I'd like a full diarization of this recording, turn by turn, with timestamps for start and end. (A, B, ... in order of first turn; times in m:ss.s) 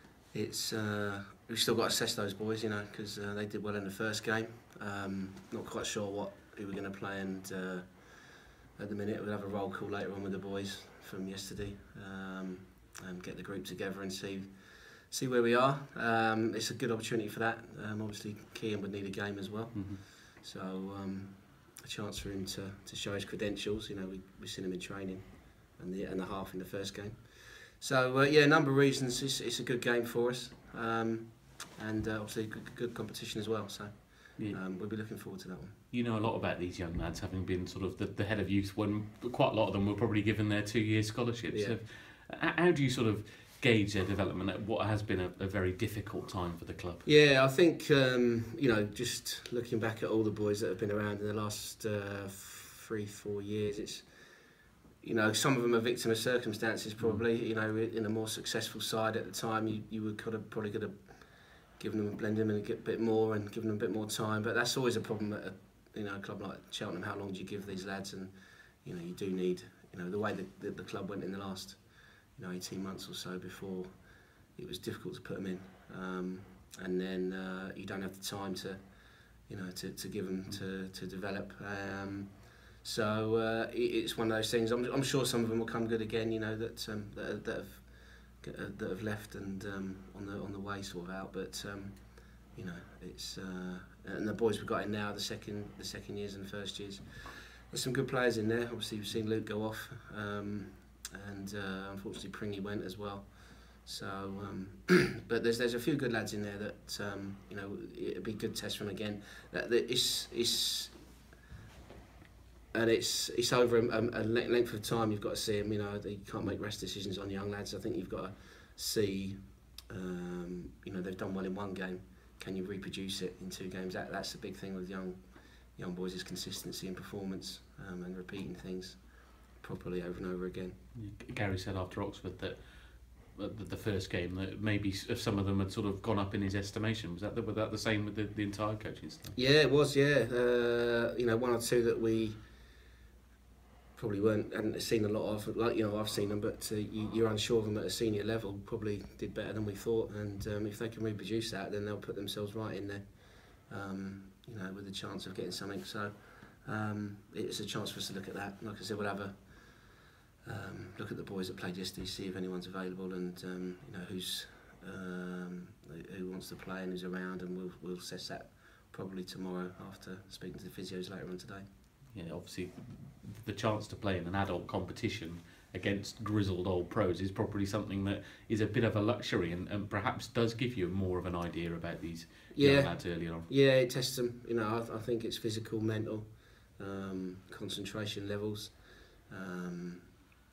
0:00.3-0:35.8 A
0:19.7-0:20.0 B
0:35.9-0:47.0 B
0:41.5-0:41.8 A
0:47.0-1:51.1 A
0:57.0-0:57.2 B
1:52.7-2:10.8 A
2:10.9-2:19.4 B
2:19.3-2:22.7 A
2:24.0-2:51.6 A
2:52.1-3:03.5 B
3:02.5-3:10.3 A